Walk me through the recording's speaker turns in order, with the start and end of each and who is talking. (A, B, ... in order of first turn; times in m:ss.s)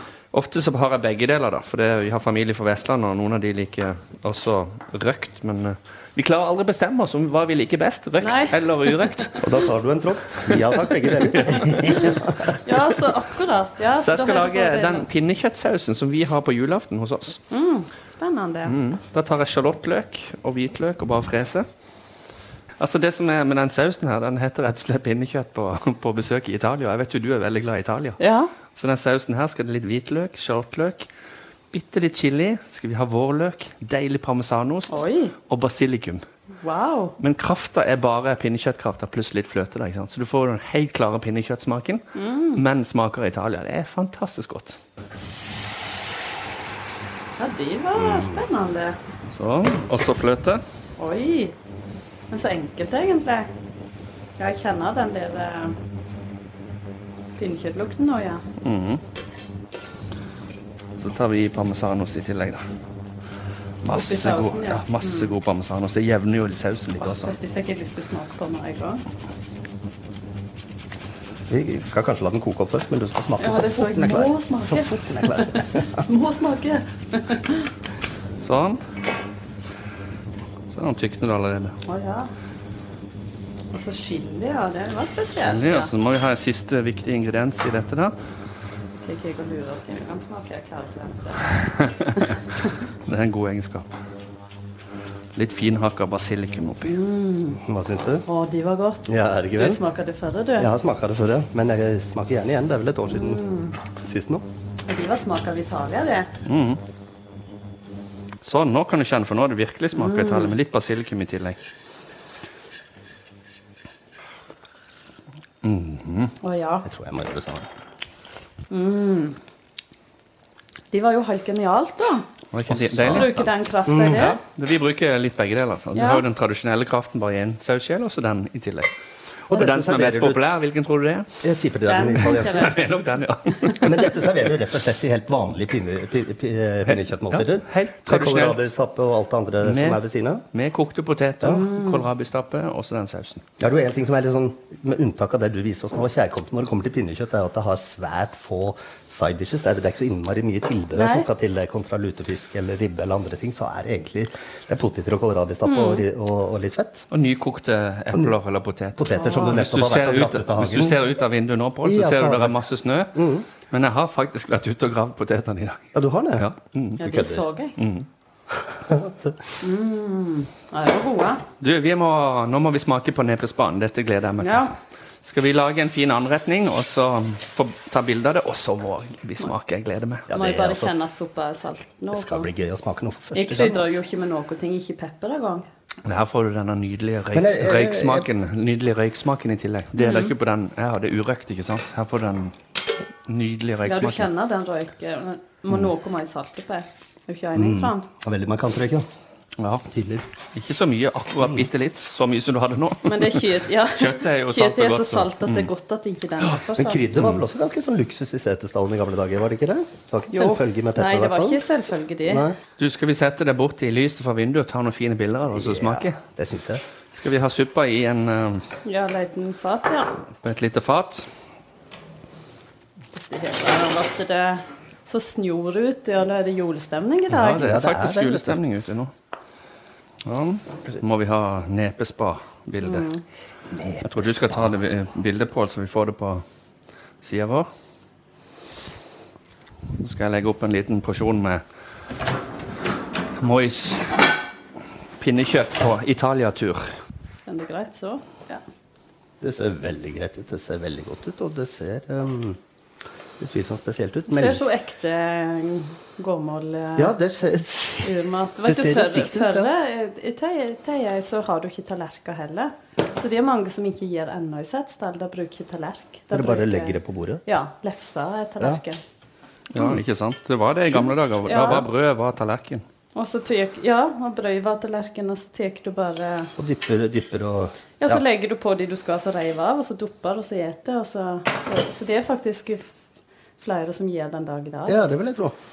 0:00.3-0:09.4 A
0:08.2-0:09.1 B
0:09.4-0:12.6 C
0:10.5-0:11.9 A
0:11.8-0:15.0 B
0:14.0-0:17.4 A
0:17.5-0:18.7 B
0:18.7-0:21.6 A
0:22.8-0:28.2 A
0:28.2-0:28.5 B
0:28.7-0:31.1 A
0:31.7-0:36.2 A
0:34.9-0:35.3 B
0:36.6-0:37.2 B
0:37.2-0:42.0 A
0:42.1-0:42.6 B
0:42.5-0:44.8 A
0:47.4-0:49.0 B
0:48.0-0:48.4 C
0:49.3-0:50.6 A
0:51.0-0:51.6 B
0:52.3-0:53.5 B
0:54.4-0:55.8 B
0:57.4-0:58.4 B
0:58.6-0:59.0 A
1:01.0-1:02.6 A
1:03.8-1:07.3 A
1:03.9-1:05.3 B
1:07.0-1:09.0 B
1:11.5-1:16.0 C
1:13.4-1:17.7 B
1:18.4-1:18.8 A
1:20.7-1:21.8 A
1:21.8-1:22.3 B
1:23.7-1:25.9 B
1:25.4-1:28.1 A
1:29.0-1:31.5 B
1:31.6-1:32.4 A
1:33.0-1:33.9 A
1:35.3-1:37.0 A
1:36.8-1:37.6 B
1:37.6-1:38.2 C
1:38.2-1:40.7 B
1:39.0-1:39.8 C
1:40.6-1:43.4 C
1:43.1-1:43.8 B
1:44.0-1:44.4 C
1:44.9-1:46.3 B
1:46.4-1:46.8 A
1:48.4-1:51.6 A
1:49.9-1:50.5 B
1:55.6-1:56.4 A
1:56.4-1:56.9 B
1:56.8-1:57.7 C
1:58.7-1:59.4 B
2:00.9-2:02.3 B
2:02.5-2:03.5 A
2:02.7-2:03.3 C
2:03.1-2:04.4 B
2:03.9-2:04.4 C
2:04.1-2:08.9 A
2:05.9-2:06.2 B
2:09.5-2:10.4 C
2:09.5-2:11.3 A
2:11.4-2:12.7 C
2:11.8-2:12.8 B
2:12.2-2:14.4 A
2:13.8-2:20.4 C
2:16.9-2:18.7 A
2:19.6-2:20.0 A
2:20.5-2:23.4 A
2:21.5-2:22.0 B
2:23.6-2:37.1 C
2:31.0-2:31.3 B
2:35.6-2:36.0 B
2:37.1-2:47.0 A
2:39.0-2:41.0 C
2:39.1-2:39.6 B
2:41.8-2:42.6 C
2:43.1-2:43.4 C
2:45.9-2:46.4 C
2:47.0-2:47.8 B
2:47.0-2:47.4 C
2:47.8-2:48.1 A
2:48.5-2:49.4 C
2:49.6-2:51.4 B
2:51.6-3:00.2 A
2:54.4-2:54.7 B
3:00.3-3:00.9 C
3:00.3-3:02.5 B
3:02.1-3:03.9 C
3:03.3-3:05.7 B
3:06.0-3:12.6 A
3:07.3-3:08.3 C
3:10.0-3:10.3 B
3:13.2-3:14.3 A
3:13.8-3:18.1 B
3:17.6-3:19.1 C
3:19.6-3:19.8 A
3:19.9-3:20.3 C
3:20.5-3:25.7 A
3:23.0-3:27.1 B
3:26.8-3:31.6 C
3:30.3-3:32.5 B
3:32.2-3:32.6 C
3:32.8-3:36.2 A
3:35.5-3:36.8 C
3:37.1-3:38.7 A
3:38.8-3:40.2 B
3:40.4-3:41.3 A
3:43.1-3:47.7 B
3:47.3-3:49.1 A
3:47.4-3:48.6 C
3:50.2-3:53.1 A
3:52.8-3:53.2 B
3:53.7-3:54.7 C
3:54.0-3:56.4 A
3:57.2-3:57.7 A
4:00.0-4:01.6 A
4:03.4-4:04.2 A
4:05.2-4:06.9 A
4:07.4-4:08.6 B
4:09.4-4:12.6 C
4:13.4-4:14.6 C
4:14.3-4:17.1 B
4:17.0-4:18.1 C
4:18.0-4:29.0 B
4:18.6-4:19.7 C
4:26.3-4:27.4 C
4:29.7-4:32.8 A
4:31.4-4:31.8 B
4:33.1-4:36.5 B
4:36.6-4:38.2 C
4:38.0-4:42.9 B
4:43.6-4:45.1 B
4:44.9-4:45.5 C